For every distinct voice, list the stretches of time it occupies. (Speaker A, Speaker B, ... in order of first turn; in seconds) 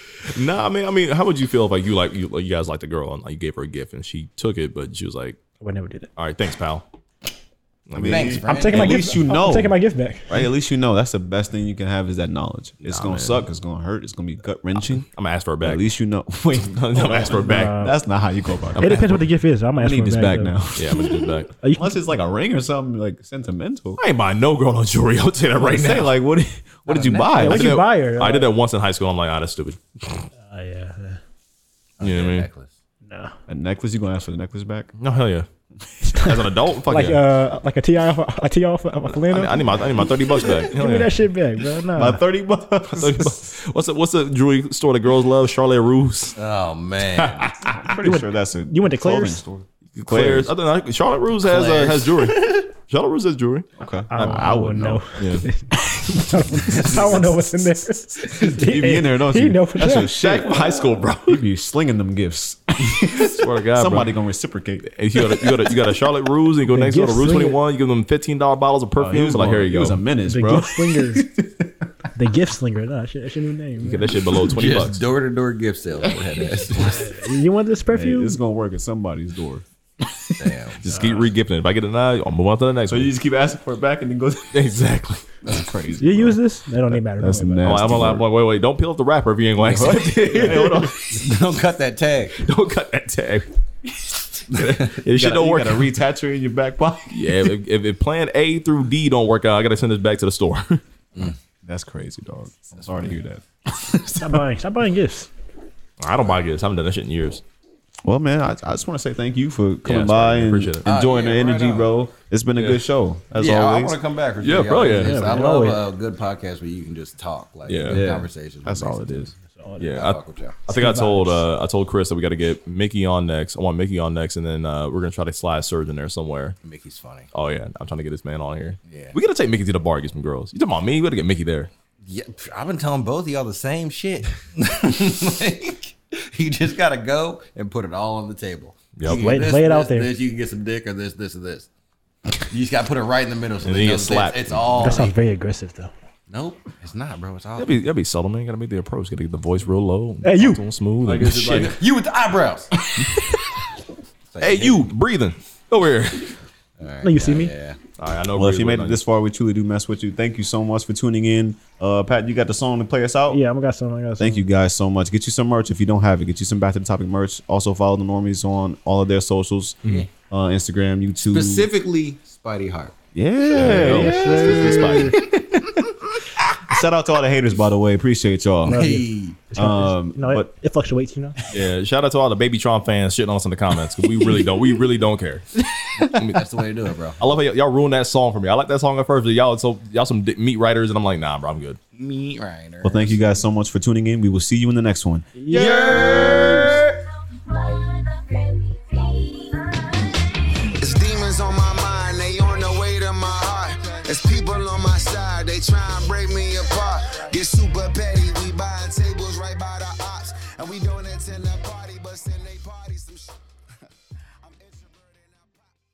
Speaker A: 0.3-5.4, 6.2-6.8, 7.9-8.4, 12.8-13.5, 15.1-15.9, 16.6-17.9, 18.8-19.2, 20.8-21.5, 24.0-26.1, 27.3-30.3, 32.0-32.5, 35.0-35.5, 36.0-37.2, 39.1-41.1, 42.9-46.4, 49.9-55.5, 60.0-61.4, 62.9-64.2, 64.8-70.1, 73.8-75.0, 80.8-83.1, 84.5-85.4, 87.6-91.2, 92.4-93.5, 94.5-95.9, 97.1-100.8, 106.0-107.4, 109.8-110.9, 112.6-112.8, 114.4-115.2, 117.7-118.0, 119.8-126.6, 127.3-131.7, 139.0-139.3, 143.6-145.0, 147.6-151.8, 154.4-156.4, 158.0-159.0, 173.5-175.2, 181.5-186.4, 187.2-191.8
Speaker B: 5.6-6.1, 8.5-10.3, 17.3-18.0, 18.8-20.7, 21.6-22.0, 27.0-28.5, 30.4-31.2, 33.1-33.4, 36.0-42.2, 48.0-49.4, 54.1-60.2, 66.7-67.6, 70.2-71.2, 72.2-74.1, 76.9-78.4, 86.0-88.0, 104.1-105.3, 115.0-115.9, 119.5-120.0, 120.7-121.5, 139.1-140.1, 144.8-145.9, 150.2-150.6, 157.0-157.5, 163.3-164.4, 173.6-175.2, 178.7-181.4, 195.4-196.8
Speaker C: 7.9-15.1, 15.6-19.2, 19.8-24.0, 25.6-27.8, 33.5-34.9, 42.0-43.5, 47.7-50.5, 51.5-52.3, 53.8-55.0, 56.6-57.2, 58.2-65.7, 69.0-71.9, 77.9-79.7, 82.9-84.8, 85.4-88.3, 89.6-91.0, 94.9-97.2, 101.6-104.5, 108.0-114.0, 117.9-119.3, 151.1-151.8, 158.3-163.4, 164.2-171.7, 173.1-175.8, 176.6-179.0, 179.6-180.5, 192.8-195.3, 195.9-196.7
Speaker D: 8.0-9.1, 26.9-27.2, 32.0-32.7, 46.4-47.5, 74.4-77.2, 80.4-80.8, 91.1-92.4, 110.8-112.0, 113.4-119.1, 119.9-120.6, 126.6-127.3, 128.9-129.2, 132.0-141.7, 142.5-145.2, 146.3-147.7, 151.5-152.7, 154.3-154.9, 156.8-157.8, 171.3-173.0, 178.7-179.4, 186.1-187.2, 191.9-193.4, 195.5-196.9
Speaker E: 200.8-213.4, 214.4-215.7